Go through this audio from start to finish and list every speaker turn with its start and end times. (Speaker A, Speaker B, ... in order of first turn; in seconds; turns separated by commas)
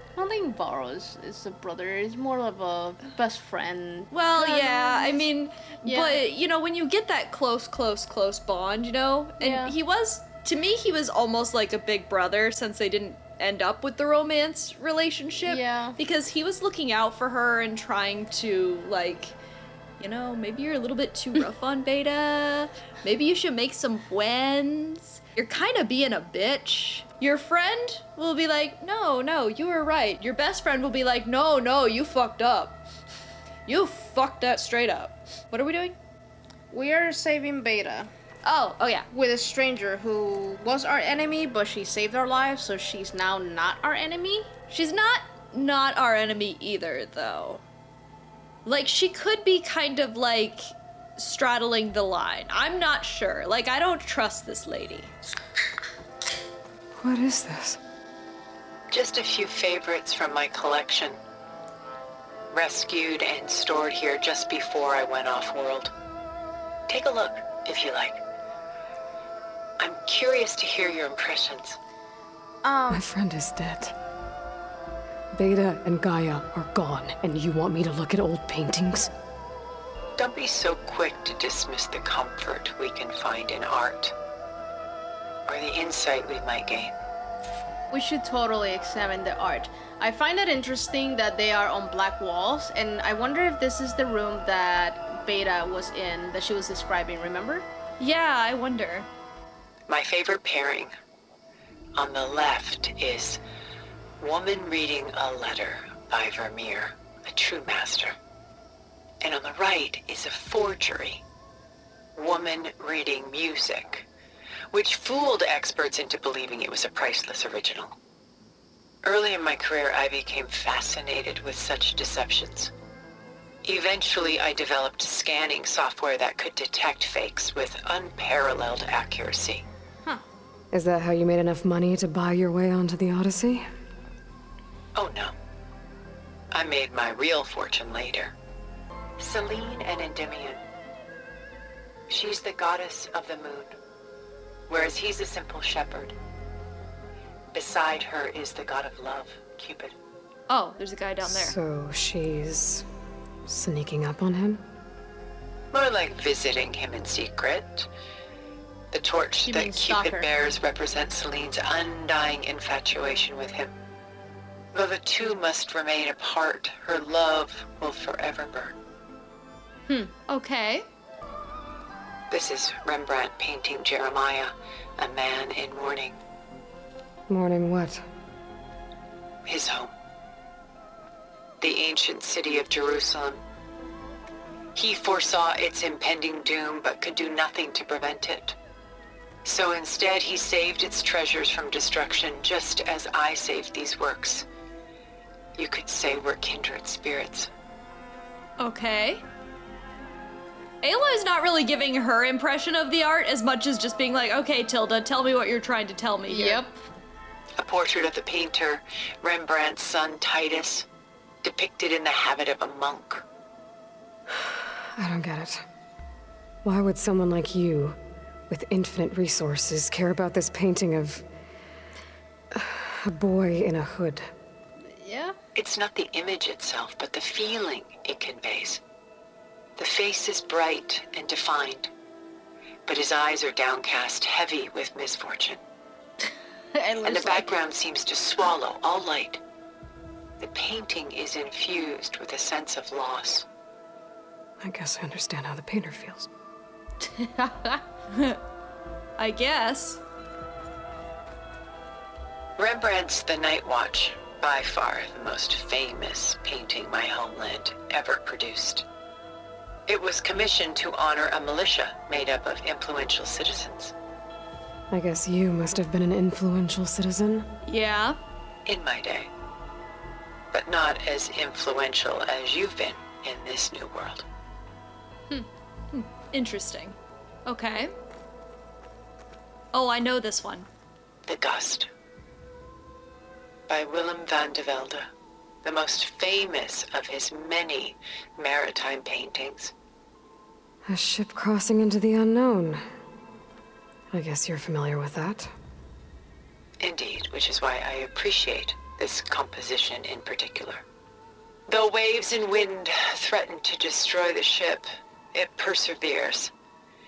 Speaker A: 0.2-5.3, Speaker B: 4.1-19.4, Speaker A: 5.8-6.2, Speaker A: 9.4-9.7, Speaker A: 15.5-16.0, Speaker B: 20.0-32.8, Speaker B: 33.7-36.0, Speaker A: 36.7-38.1, Speaker B: 38.5-39.1, Speaker A: 39.1-44.5, Speaker B: 44.7-47.6, Speaker B: 48.6-55.1, Speaker C: 57.0-57.8, Speaker D: 58.9-61.2, Speaker D: 62.5-65.9, Speaker D: 66.9-68.2, Speaker D: 69.8-71.8, Speaker A: 72.6-73.0, Speaker C: 72.9-73.9, Speaker C: 75.3-79.1, Speaker D: 80.2-84.1, Speaker D: 85.5-86.9, Speaker A: 87.9-97.7, Speaker B: 98.0-99.1, Speaker D: 99.9-100.9, Speaker D: 102.0-103.4, Speaker D: 104.2-108.2, Speaker D: 109.2-111.2, Speaker D: 112.2-114.1, Speaker D: 114.7-118.0, Speaker D: 119.0-122.7, Speaker D: 123.6-129.6, Speaker C: 130.7-133.7, Speaker D: 134.9-135.3, Speaker D: 136.5-138.3, Speaker D: 139.2-140.6, Speaker D: 142.1-143.8, Speaker D: 144.7-146.2, Speaker D: 147.5-149.9, Speaker B: 150.5-151.6, Speaker C: 151.2-152.8, Speaker C: 153.5-154.6, Speaker D: 155.7-157.9, Speaker D: 158.9-163.7, Speaker A: 159.4-160.3, Speaker D: 164.7-168.8, Speaker A: 169.9-170.1, Speaker B: 170.3-170.9, Speaker D: 172.3-176.2, Speaker C: 177.3-178.0, Speaker D: 179.4-179.9, Speaker D: 181.6-183.4, Speaker D: 184.8-188.6, Speaker D: 189.4-194.5, Speaker D: 195.6-197.5, Speaker B: 198.6-199.2, Speaker B: 200.8-206.6, Speaker A: 206.3-206.8, Speaker D: 207.6-210.9, Speaker D: 211.4-213.2, Speaker C: 214.3-215.7, Speaker C: 216.6-218.0, Speaker C: 218.5-221.3, Speaker C: 222.5-224.3, Speaker A: 224.9-225.4, Speaker D: 225.6-228.8, Speaker D: 229.8-231.9, Speaker D: 232.9-235.6, Speaker A: 236.8-237.6, Speaker D: 237.0-239.4, Speaker D: 240.4-243.5, Speaker C: 244.6-246.3, Speaker A: 247.0-247.8, Speaker B: 248.1-248.4, Speaker B: 249.2-250.0, Speaker D: 252.6-258.9, Speaker D: 259.9-263.9, Speaker C: 264.9-267.5, Speaker B: 267.7-268.2, Speaker D: 268.7-269.3, Speaker D: 270.5-274.2, Speaker B: 275.9-277.9, Speaker B: 279.7-280.7, Speaker D: 281.3-281.9, Speaker D: 283.7-285.1, Speaker D: 285.6-289.7, Speaker C: 290.9-292.8, Speaker C: 294.1-295.5, Speaker D: 296.8-300.8, Speaker D: 301.7-306.5